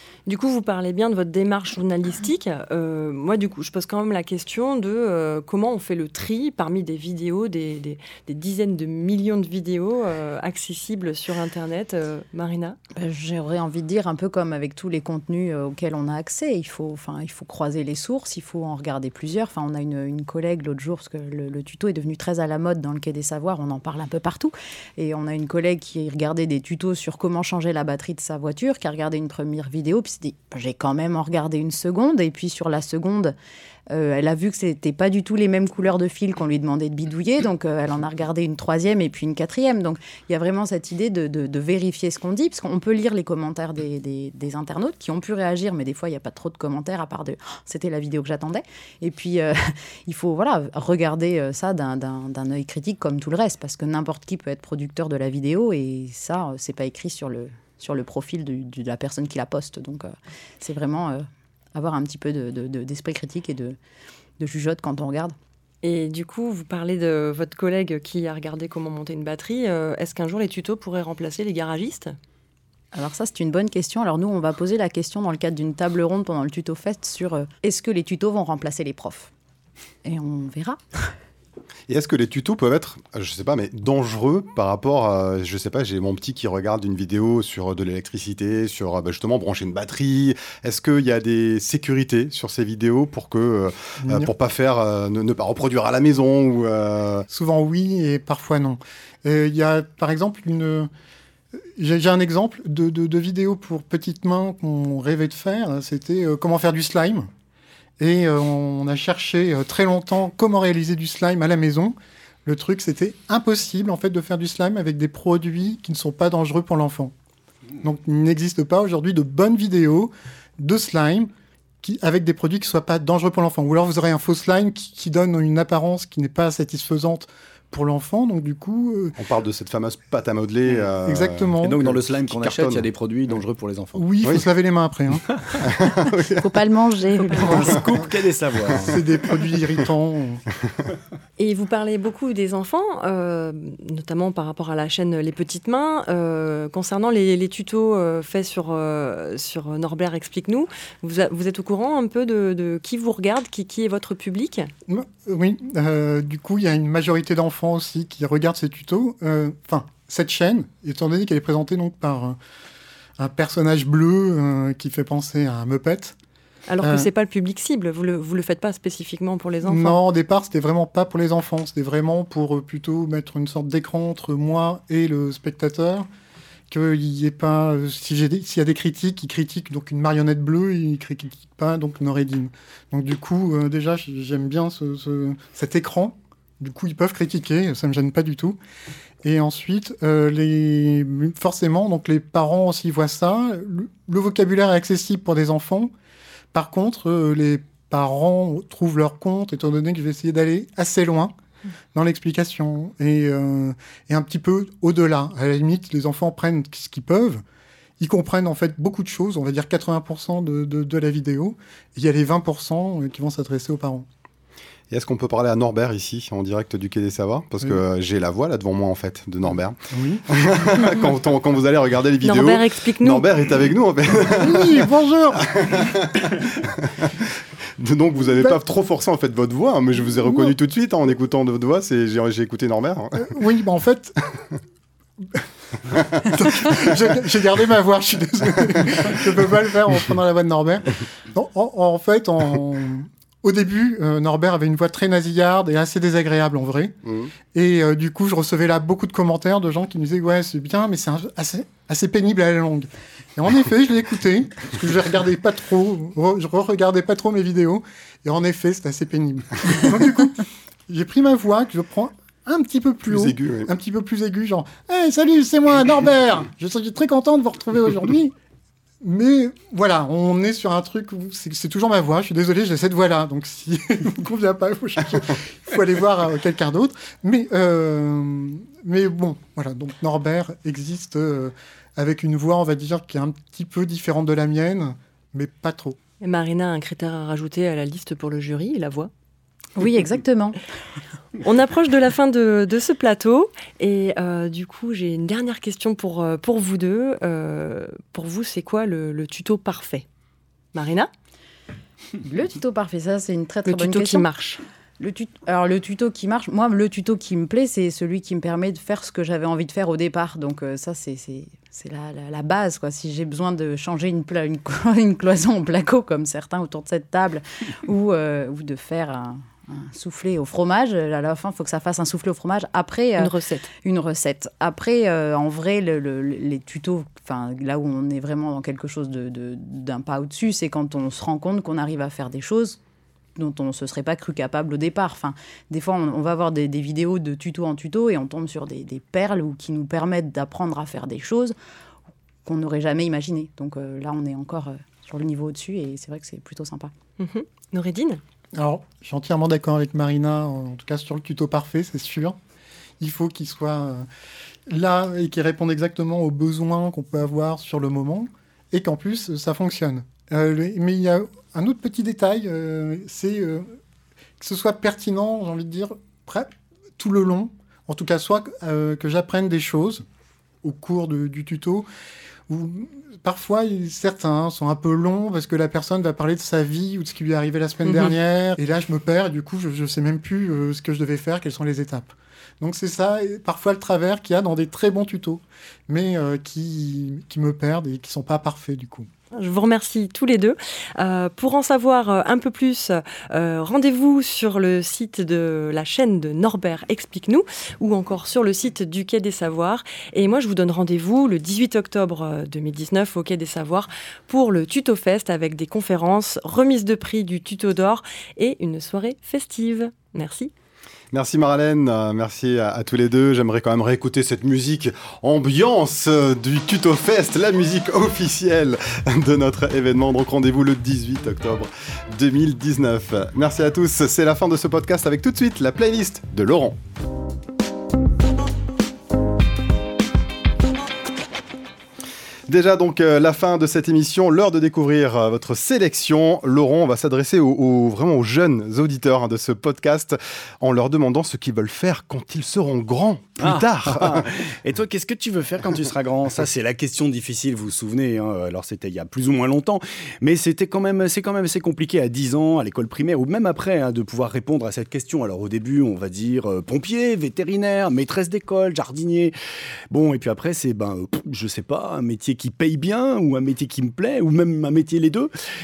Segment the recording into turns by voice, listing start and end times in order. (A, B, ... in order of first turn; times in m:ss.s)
0:00.3-0:12.8 A
0:13.0-0:33.4 B
0:33.9-1:03.8 B
1:04.4-1:05.4 B
1:05.8-1:12.2 A
1:12.9-1:19.3 B
1:20.0-1:21.1 B
1:21.9-1:37.3 C
1:34.0-1:34.3 D
1:37.3-1:40.9 D
1:41.8-1:47.3 D
1:48.0-1:57.1 D
1:57.8-2:01.3 D
2:01.8-2:09.2 D
2:09.2-2:12.9 C
2:11.0-2:11.8 D
2:11.6-2:14.2 E
2:14.0-2:15.2 D
2:15.3-2:15.6 E
2:15.6-2:16.5 C
2:16.3-2:17.8 B
2:17.3-2:19.0 E
2:18.8-2:20.4 D
2:21.4-2:34.7 A
2:34.9-2:42.4 D
2:43.2-2:46.2 D
2:46.7-2:50.0 A
2:46.8-2:47.1 D
2:49.6-2:56.1 D
2:56.7-3:08.6 D
3:09.2-3:15.9 D
3:16.5-3:21.3 D
3:21.9-3:27.4 D
3:28.0-3:34.1 D
3:34.9-3:44.9 C
3:39.9-3:40.2 D
3:42.2-3:43.3 A
3:44.3-3:45.9 D
3:45.5-3:53.4 C
3:50.2-3:50.5 D
3:53.2-3:54.2 D
3:56.1-4:07.0 D
4:07.1-4:07.3 C
4:07.5-4:28.3 D
4:23.1-4:23.7 C
4:29.0-4:46.0 D
4:46.2-4:49.1 A
4:49.8-4:50.6 B
4:51.4-5:00.0 A
5:00.7-5:01.1 A
5:02.2-5:04.3 B
5:03.7-5:04.6 A
5:05.0-5:32.8 B
5:23.2-5:23.7 A
5:33.4-5:41.6 B
5:42.4-5:46.9 B
5:47.2-5:48.2 A
5:48.6-5:52.4 D
5:53.0-5:54.1 D
5:54.7-6:03.8 D
6:04.4-6:10.0 D
6:10.6-6:11.9 D
6:12.5-6:29.1 D
6:29.3-6:50.5 A
6:51.1-7:06.8 C
7:12.5-7:24.2 C
7:23.4-7:39.4 E
7:39.9-7:45.3 E